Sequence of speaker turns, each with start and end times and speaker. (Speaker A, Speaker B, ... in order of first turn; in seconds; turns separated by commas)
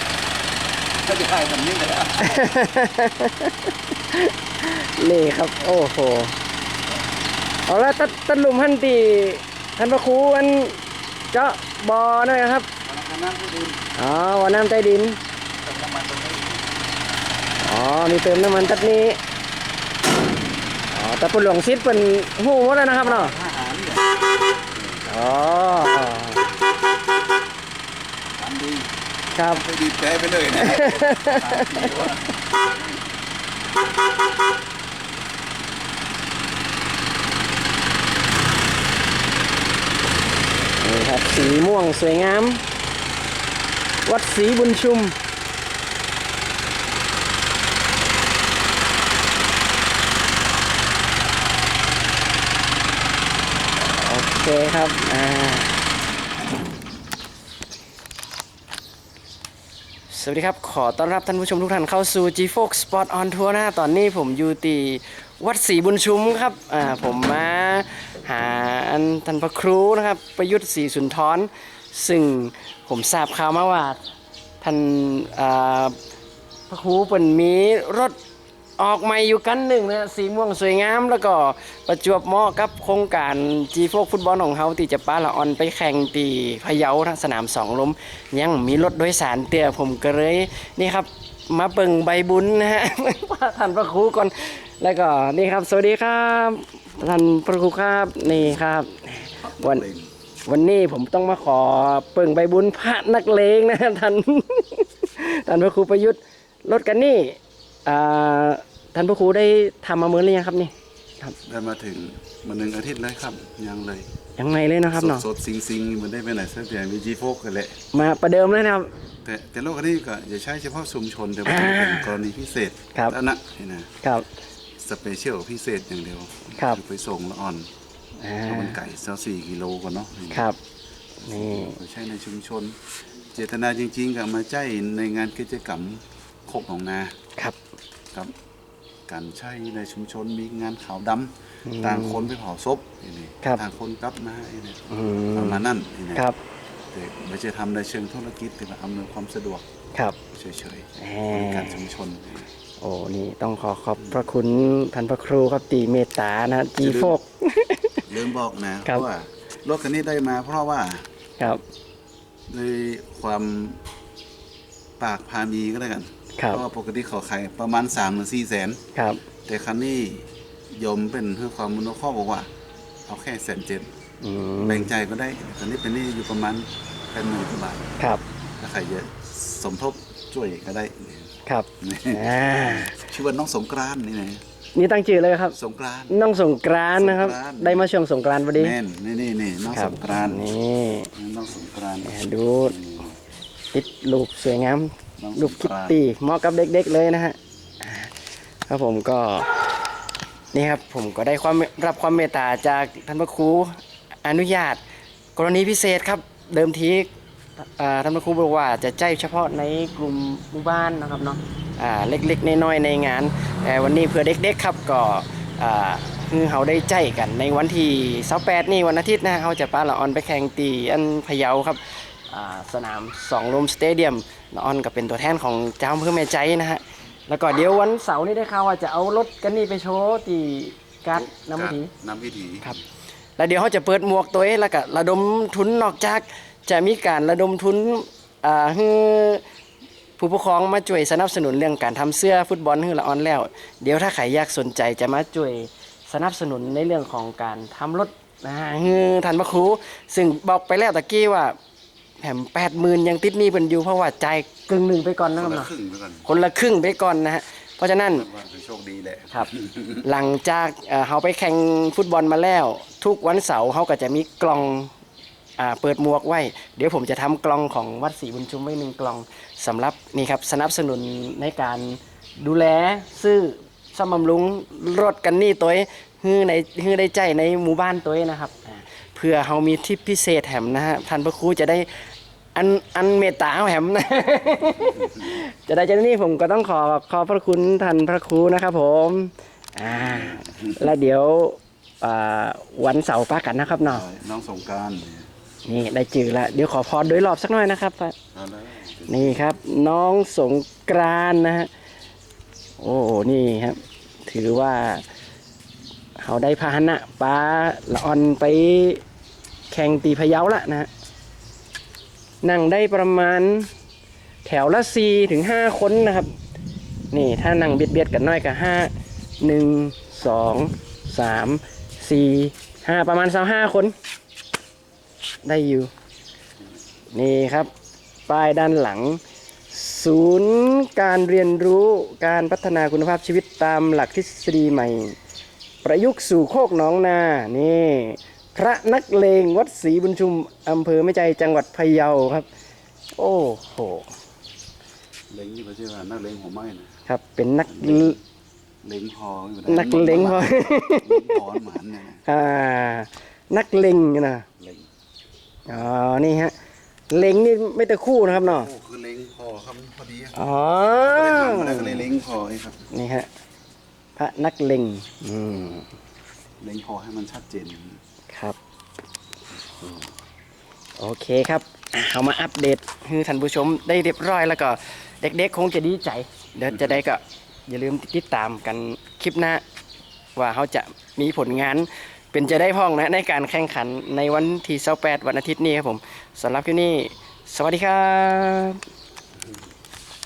Speaker A: 0.9-2.5, Speaker B: 2.2-6.4, Speaker B: 7.7-10.8, Speaker B: 11.3-12.7, Speaker A: 12.8-13.8, Speaker B: 14.0-15.2, Speaker A: 15.6-16.7, Speaker B: 17.6-19.2, Speaker B: 20.9-23.3, Speaker A: 23.0-25.1, Speaker B: 25.1-26.4, Speaker A: 28.4-32.4, Speaker B: 29.4-29.6, Speaker B: 30.6-32.1, Speaker B: 40.8-42.6, Speaker B: 44.1-45.2, Speaker B: 53.8-55.8, Speaker B: 60.1-74.0, Speaker B: 74.6-76.0, Speaker B: 76.7-78.2, Speaker B: 78.8-99.8, Speaker A: 99.4-100.1, Speaker B: 100.5-111.4, Speaker A: 111.5-114.1, Speaker B: 114.4-115.2, Speaker A: 114.9-117.8, Speaker B: 117.9-118.9, Speaker A: 119.2-123.9, Speaker B: 121.5-122.2, Speaker A: 124.8-127.7, Speaker B: 128.2-128.8, Speaker A: 128.5-130.5, Speaker B: 130.3-130.6, Speaker A: 131.2-132.8, Speaker B: 131.2-131.8, Speaker A: 133.3-137.2, Speaker A: 139.1-144.8, Speaker B: 141.7-142.2, Speaker B: 144.9-145.6, Speaker A: 145.3-146.3, Speaker A: 146.9-149.7, Speaker A: 150.3-152.5, Speaker B: 151.0-151.8, Speaker B: 152.8-158.0, Speaker A: 156.8-157.2, Speaker A: 158.1-161.1, Speaker A: 162.5-163.8, Speaker A: 165.0-168.8, Speaker B: 168.9-169.2, Speaker A: 169.4-172.5, Speaker A: 173.1-173.9, Speaker B: 174.2-174.9, Speaker A: 174.6-178.0, Speaker A: 178.6-184.4, Speaker B: 181.5-183.0, Speaker B: 184.8-185.6, Speaker A: 185.5-186.2, Speaker B: 186.1-188.8, Speaker A: 187.0-187.9, Speaker A: 188.6-190.5, Speaker B: 189.7-191.1, Speaker A: 191.1-193.2, Speaker B: 192.1-192.8, Speaker B: 193.7-198.1, Speaker A: 195.2-196.0, Speaker B: 198.7-199.5, Speaker B: 200.5-204.8, Speaker B: 205.4-231.9, Speaker A: 231.1-232.8, Speaker B: 233.4-239.4, Speaker B: 240.2-251.6, Speaker A: 248.8-249.2, Speaker B: 252.2-255.7, Speaker A: 255.4-256.3, Speaker B: 256.2-258.3, Speaker A: 258.1-260.1, Speaker B: 260.0-264.9, Speaker B: 265.6-281.9, Speaker B: 282.6-294.0, Speaker A: 289.9-290.9, Speaker A: 293.9-295.3, Speaker B: 295.7-298.1, Speaker A: 298.3-299.5, Speaker B: 299.1-301.7, Speaker B: 302.8-305.0, Speaker B: 306.2-309.0, Speaker B: 309.7-310.9, Speaker B: 312.4-313.7, Speaker B: 314.4-316.3, Speaker B: 317.1-323.9, Speaker B: 325.4-325.9, Speaker B: 327.1-327.7, Speaker B: 328.3-335.2, Speaker B: 335.8-342.5, Speaker B: 343.2-344.1, Speaker A: 345.3-346.9, Speaker B: 347.1-348.2, Speaker A: 347.7-348.2, Speaker A: 348.8-352.2, Speaker B: 349.7-351.4, Speaker B: 352.3-354.5, Speaker A: 354.6-354.9, Speaker B: 355.7-356.5, Speaker B: 357.1-358.7, Speaker A: 358.2-360.4, Speaker B: 360.4-362.1, Speaker A: 361.0-362.9, Speaker B: 362.9-363.3, Speaker B: 364.2-365.9, Speaker A: 366.6-368.0, Speaker B: 368.3-368.6, Speaker B: 371.0-379.6, Speaker B: 380.4-388.8